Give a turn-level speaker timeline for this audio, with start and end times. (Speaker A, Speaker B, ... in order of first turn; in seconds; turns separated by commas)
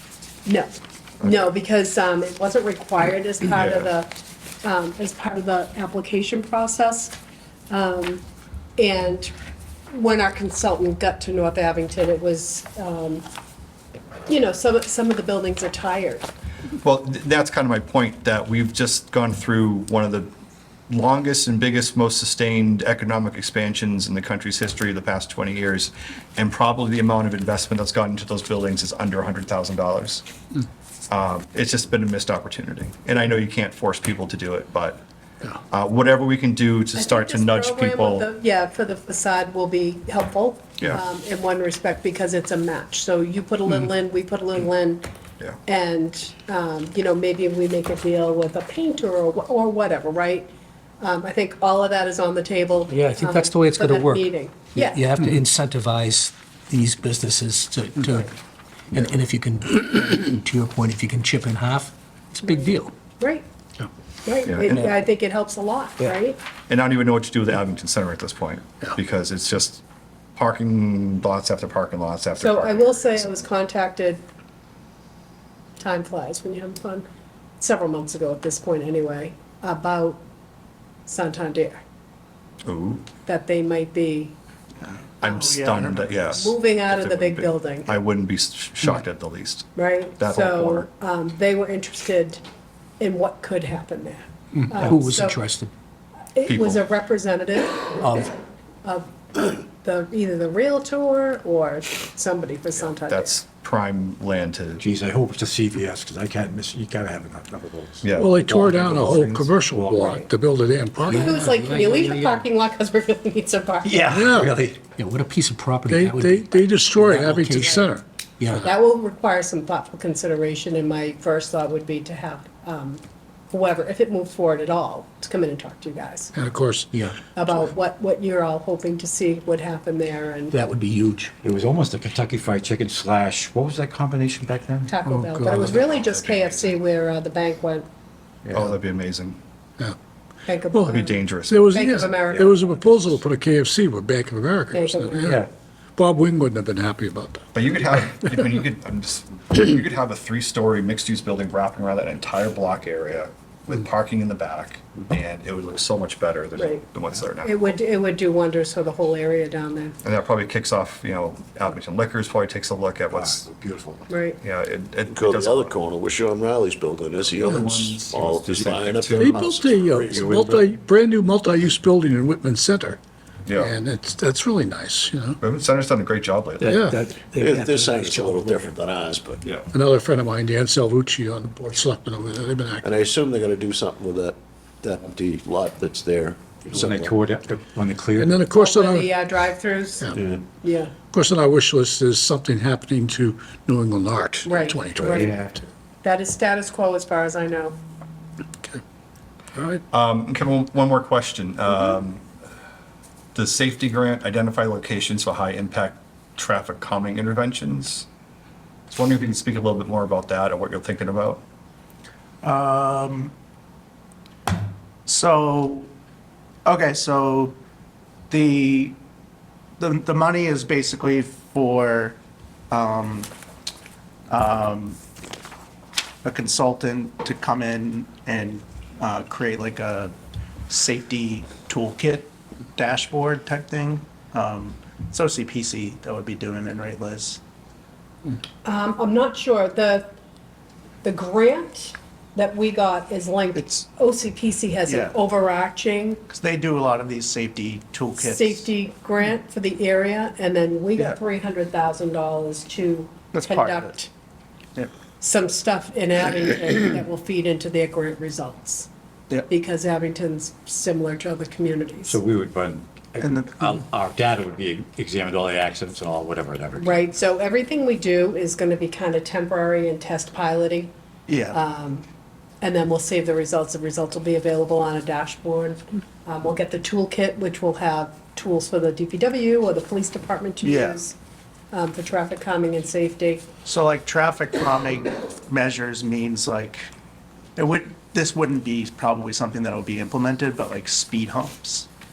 Speaker A: 0.5-4.1, Speaker B: 3.5-3.9, Speaker A: 4.6-7.2, Speaker A: 7.7-8.2, Speaker A: 8.8-9.3, Speaker A: 9.9-13.2, Speaker A: 14.3-16.3, Speaker B: 16.8-20.3, Speaker B: 20.9-30.2, Speaker B: 31.1-35.0, Speaker B: 35.7-38.3, Speaker A: 36.9-45.0, Speaker A: 45.6-55.0, Speaker C: 52.9-58.3, Speaker C: 58.9-62.9, Speaker A: 63.2-63.4, Speaker A: 64.2-66.4, Speaker B: 64.5-64.8, Speaker B: 66.7-69.8, Speaker B: 70.3-73.4, Speaker A: 72.4-74.2, Speaker A: 75.8-77.0, Speaker A: 77.6-80.2, Speaker A: 81.1-81.8, Speaker B: 82.6-83.1, Speaker A: 83.2-84.3, Speaker B: 85.2-90.9, Speaker A: 85.2-88.0, Speaker D: 85.4-86.2, Speaker A: 89.8-92.4, Speaker A: 93.0-95.4, Speaker C: 94.6-95.7, Speaker A: 96.3-98.0, Speaker B: 96.5-96.8, Speaker C: 98.0-98.3, Speaker A: 98.8-103.3, Speaker B: 102.8-104.8, Speaker E: 104.8-110.2, Speaker B: 108.0-108.4, Speaker F: 108.1-111.7, Speaker A: 109.9-110.2, Speaker C: 111.1-112.4, Speaker A: 111.1-114.4, Speaker E: 113.8-114.8, Speaker F: 114.1-114.5, Speaker C: 115.0-118.6, Speaker F: 115.9-118.7, Speaker A: 118.6-126.3, Speaker F: 126.3-126.9, Speaker C: 126.9-127.2, Speaker A: 127.3-130.5, Speaker C: 130.5-131.3, Speaker E: 131.4-134.9, Speaker A: 134.9-137.9, Speaker F: 135.1-135.7, Speaker B: 135.4-136.7, Speaker B: 138.5-139.4, Speaker A: 140.5-142.6, Speaker F: 140.7-145.4, Speaker B: 140.9-142.0, Speaker A: 144.7-145.4, Speaker F: 146.0-147.4, Speaker B: 147.5-157.5, Speaker A: 156.6-156.8, Speaker A: 157.4-159.9, Speaker B: 160.0-163.5, Speaker E: 163.1-164.0, Speaker A: 164.1-164.4, Speaker B: 164.4-165.8, Speaker G: 165.1-170.5, Speaker B: 167.3-169.3, Speaker F: 169.2-173.0, Speaker E: 170.1-170.7, Speaker B: 173.4-173.7, Speaker F: 173.5-175.4, Speaker B: 175.4-176.7, Speaker F: 176.6-177.0, Speaker E: 176.7-177.8, Speaker G: 177.4-179.4, Speaker C: 178.0-178.4, Speaker F: 179.7-182.8, Speaker G: 182.8-187.1, Speaker E: 186.7-188.3, Speaker F: 188.2-189.1, Speaker A: 188.5-190.9, Speaker G: 190.1-190.4, Speaker F: 191.1-195.2, Speaker A: 194.4-195.3, Speaker E: 195.1-195.5, Speaker A: 196.0-197.7, Speaker F: 199.6-199.8, Speaker B: 199.9-202.2, Speaker B: 203.3-208.1, Speaker B: 208.9-211.4, Speaker D: 212.4-213.3, Speaker D: 215.1-215.9, Speaker D: 216.6-217.6, Speaker D: 218.3-219.0, Speaker D: 219.8-222.2, Speaker D: 222.7-223.3, Speaker D: 224.3-225.0, Speaker D: 226.2-230.1, Speaker D: 230.7-237.4, Speaker A: 238.6-240.1, Speaker A: 241.0-246.2, Speaker D: 243.5-243.8, Speaker D: 244.8-245.1, Speaker D: 246.3-248.7, Speaker A: 248.2-254.1, Speaker D: 253.3-253.9, Speaker A: 255.2-258.9, Speaker A: 259.5-262.2, Speaker E: 262.0-267.1, Speaker D: 263.2-263.8, Speaker A: 266.8-270.9, Speaker D: 271.3-271.6, Speaker A: 271.5-272.1, Speaker A: 272.6-281.1, Speaker D: 280.6-281.0, Speaker A: 281.7-283.5, Speaker D: 283.6-286.9, Speaker D: 287.6-291.9